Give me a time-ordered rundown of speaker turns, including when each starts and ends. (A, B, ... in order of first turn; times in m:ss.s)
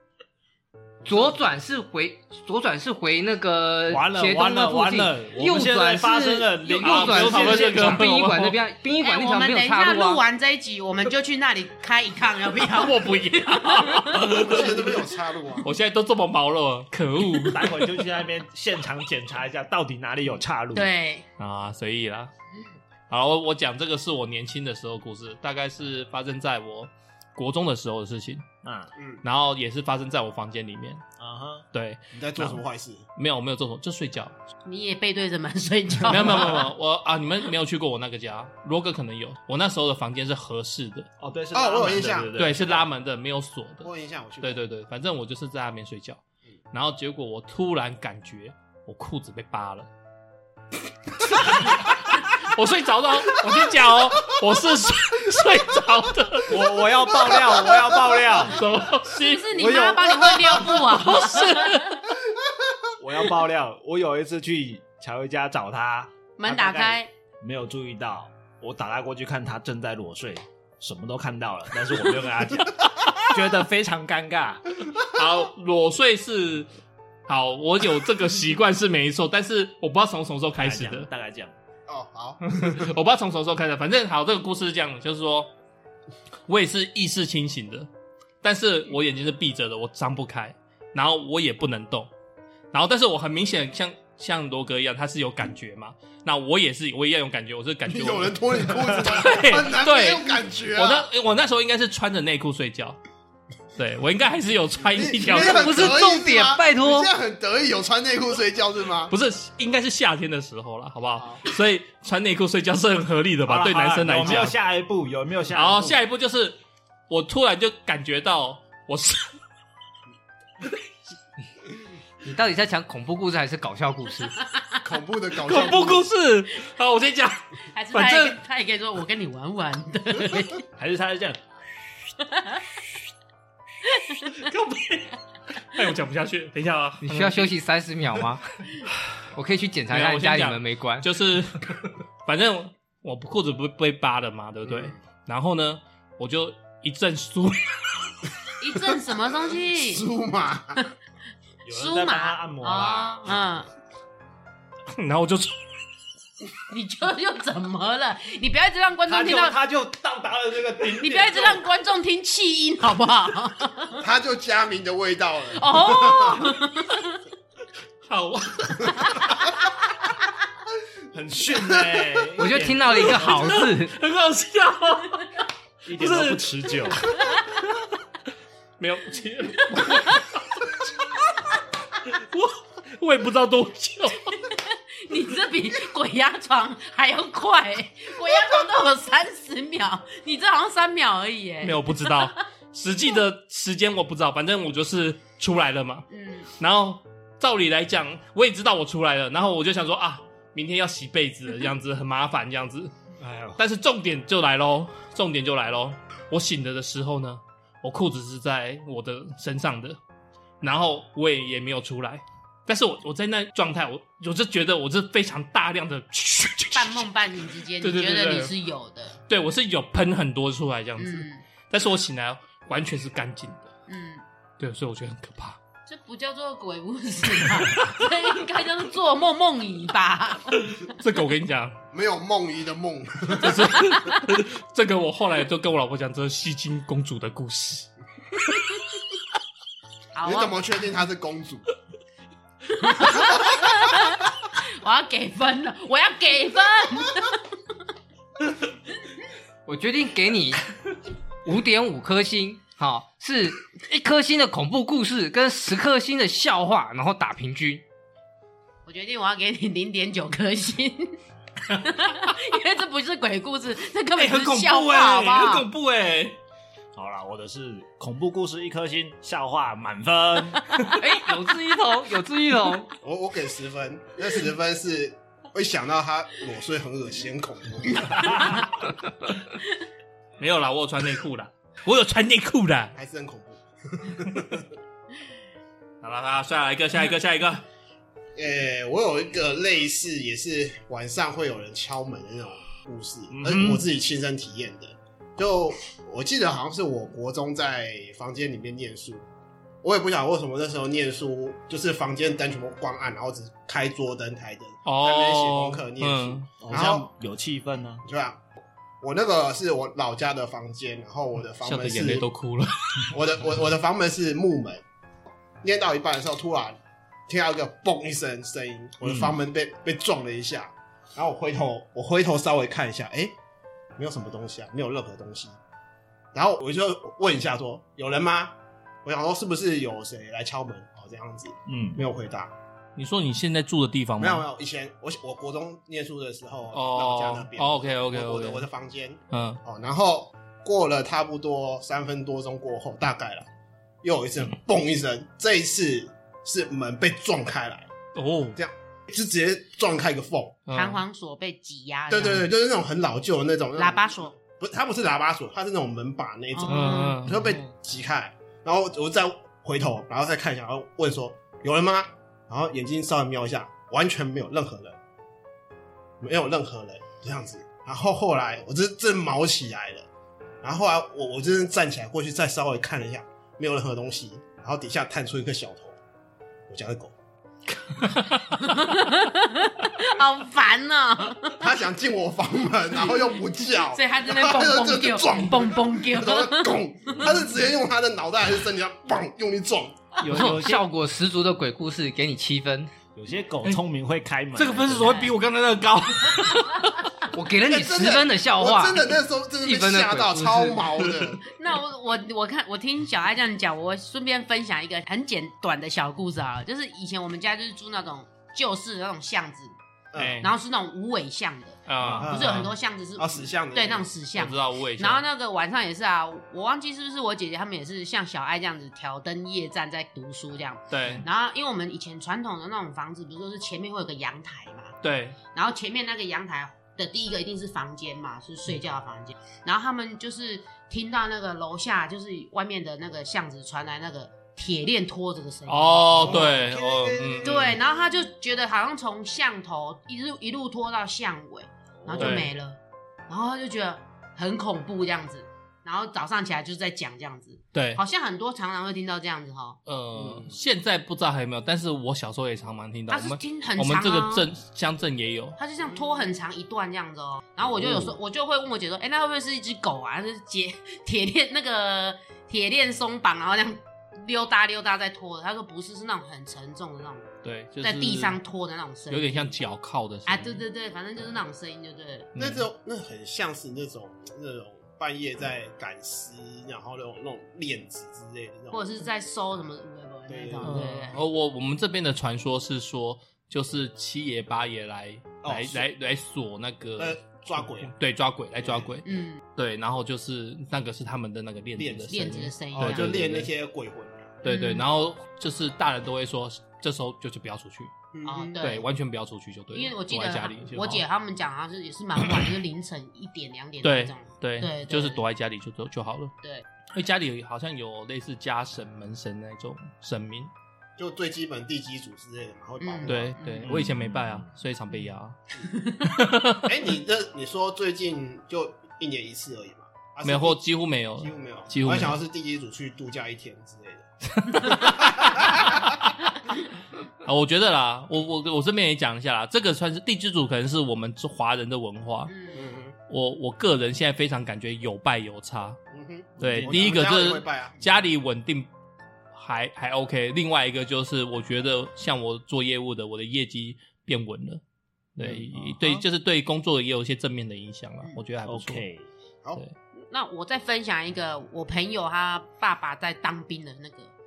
0:01.0-0:10.2 A
0:03.9-0:08.1 B
0:06.8-0:08.6 C
0:09.0-0:14.4 D
0:12.6-0:15.0 C
0:14.3-0:15.7 E
0:15.6-0:18.1 C
0:17.3-0:20.9 B
0:20.7-0:21.2 D
0:21.4-0:22.3 C
0:23.1-0:28.4 C
0:28.6-0:28.9 B
0:29.0-0:29.2 E
0:29.2-0:31.0 C
0:31.2-0:31.6 B
0:31.7-0:32.6 C
0:32.1-0:33.0 E
0:33.2-0:34.4 C
0:34.6-0:36.7 D
0:36.1-0:41.1 C
0:41.2-0:42.8 B
0:41.5-0:42.4 E
0:42.3-0:43.9 C
0:43.8-0:44.6 E
0:44.4-0:46.2 C
0:46.7-0:49.9 C
0:51.2-0:56.6 C
0:56.5-0:58.6 B
0:58.5-0:59.8 C
0:59.1-1:02.0 D
0:59.6-1:00.8 B
1:01.0-1:02.0 C
1:03.0-1:14.8 B
1:06.4-1:07.1 D
1:15.0-1:16.7 C
1:17.3-1:21.1 C
1:20.6-1:21.5 B
1:21.9-1:22.8 E
1:22.5-1:25.5 C
1:26.5-1:27.9 C
1:28.4-1:32.1 C
1:32.7-1:43.0 C
1:37.9-1:41.1 E
1:43.8-1:45.9 C
1:44.9-1:49.1 E
1:45.2-1:47.1 A
1:49.1-1:54.6 C
1:51.2-1:51.4 E
1:53.4-1:56.0 B
1:55.5-1:56.6 C
1:57.1-1:59.3 C
2:02.2-2:04.4 A
2:04.8-2:06.1 E
2:05.4-2:07.4 C
2:07.7-2:10.6 D
2:07.9-2:08.4 C
2:10.8-2:11.4 B
2:12.3-2:12.6 D
2:13.9-2:14.3 D
2:14.3-2:17.5 C
2:17.0-2:18.6 A
2:19.3-2:21.1 A
2:19.9-2:28.1 C
2:24.6-2:24.9 E
2:28.6-2:30.1 D
2:29.7-2:30.8 E
2:31.6-2:33.3 B
2:31.7-2:33.7 D
2:34.9-2:35.7 C
2:36.7-2:39.6 D
2:39.1-2:41.6 B
2:41.0-2:44.0 D
2:44.0-2:46.5 E
2:45.5-2:47.2 D
2:48.1-2:49.4 C
2:48.9-2:49.5 D
2:51.1-2:53.6 B
2:51.5-2:52.1 E
2:52.4-2:54.0 A
2:53.2-2:55.3 C
2:55.8-2:57.1 B
2:55.9-2:57.9 C
2:58.8-3:00.7 C
2:59.7-3:00.2 D
3:02.0-3:04.3 C
3:04.5-3:12.3 D
3:11.6-3:16.1 C
3:16.1-3:16.5 D
3:16.6-3:22.9 C
3:23.2-3:23.6 B
3:23.6-3:30.0 C
3:30.6-3:37.1 C
3:36.7-3:39.2 D
3:37.8-3:38.5 C
3:39.3-3:43.7 C
3:41.0-3:41.4 D
3:43.9-3:44.2 D
3:44.6-3:45.6 C
3:45.9-3:50.8 D
3:50.8-3:51.8 C
3:51.9-3:53.8 E
3:53.4-3:57.9 C
3:53.8-3:54.2 D
4:00.1-4:00.6 D
4:00.2-4:01.6 E
4:02.7-4:07.4 D
4:09.6-4:10.6 A
4:11.4-4:17.8 A
4:18.8-4:21.1 D
4:21.7-4:25.7 D
4:24.2-4:26.4 C
4:26.9-4:30.9 B
4:30.8-4:32.9 A
4:33.0-4:38.5 E
4:40.4-4:43.0 C
4:42.9-4:44.7 E
4:46.0-4:47.6 C
4:48.3-4:59.2 E
4:53.4-4:53.7 B
4:53.4-4:53.8 C
4:59.8-5:07.1 E
5:04.8-5:06.5 C
5:06.6-5:08.0 B
5:08.0-5:08.4 E
5:09.0-5:12.2 E
5:11.6-5:13.2 C
5:13.1-5:14.8 E
5:15.6-5:23.3 E
5:19.0-5:19.3 C
5:24.0-5:25.6 E
5:26.3-5:32.5 E
5:31.7-5:32.0 B
5:33.0-5:34.4 C
5:34.2-5:43.5 E
5:36.7-5:38.6 C
5:39.3-5:39.6 C
5:44.0-5:47.9 E
5:48.1-5:48.6 C
5:48.5-5:50.6 E
5:50.7-5:51.0 C
5:50.7-5:52.5 D
5:52.1-6:05.0 E
5:53.8-5:54.3 D
5:56.5-5:57.3 D
5:56.7-5:57.6 C
6:06.2-6:10.1 E
6:10.6-6:16.0 E
6:16.7-6:17.1 E
6:18.6-6:21.7 D
6:21.6-6:30.2 E
6:23.8-6:27.3 D
6:30.2-6:30.8 B
6:30.2-6:32.9 A
6:33.1-6:35.3 B
6:34.5-6:37.0 C
6:37.3-6:39.1 A
6:37.7-6:41.4 E
6:39.6-6:40.8 A
6:41.4-6:49.8 D
6:50.1-6:50.4 E
6:50.2-6:50.5 C
6:50.4-7:05.0 D
6:51.9-6:52.7 C
6:52.0-6:52.2 B
6:52.1-6:54.1 E
6:54.4-6:55.2 C
7:00.9-7:01.2 C
7:05.0-7:05.4 C
7:05.5-7:16.5 D
7:15.7-7:17.8 C
7:16.2-7:17.8 E
7:17.4-7:29.8 D
7:22.2-7:22.5 C
7:27.7-7:28.0 C
7:29.8-7:35.6 C
7:30.1-7:30.6 E
7:33.1-7:34.5 D
7:35.6-7:47.2 D
7:35.8-7:36.3 E
7:47.4-7:48.4 C
7:47.8-7:49.6 D
7:49.1-7:50.6 C
7:50.2-7:52.3 D
7:52.3-7:52.7 C
7:52.4-7:58.9 E
7:58.7-8:01.2 D
8:00.3-8:01.2 E
8:00.6-8:13.5 C
8:05.4-8:05.9 E
8:07.0-8:07.9 E
8:08.6-8:09.0 E
8:09.0-8:09.4 D
8:11.8-8:12.2 E
8:12.1-8:13.1 D
8:12.7-8:14.4 E
8:14.4-8:17.9 C
8:14.4-8:14.8 D
8:18.1-8:18.6 E
8:18.2-8:18.8 D
8:18.6-8:21.0 C
8:19.7-8:25.2 D
8:23.8-8:26.3 C
8:26.9-8:30.5 C
8:31.0-8:33.4 E
8:32.8-8:33.7 D
8:33.1-8:35.4 C
8:33.6-8:34.5 B
8:36.0-8:36.7 C
8:36.6-8:40.6 E
8:40.2-8:42.2 C
8:41.2-8:46.0 E
8:44.3-8:45.8 C
8:47.2-8:52.3 C
8:52.3-8:52.6 D
8:52.5-8:52.9 E
8:53.1-8:55.8 C
8:55.9-8:58.1 E
8:56.4-8:58.7 C
8:56.4-8:56.9 B
8:59.3-9:04.6 C
9:05.2-9:08.8 C
9:05.2-9:06.0 B
9:08.4-9:09.1 B
9:10.0-9:14.1 D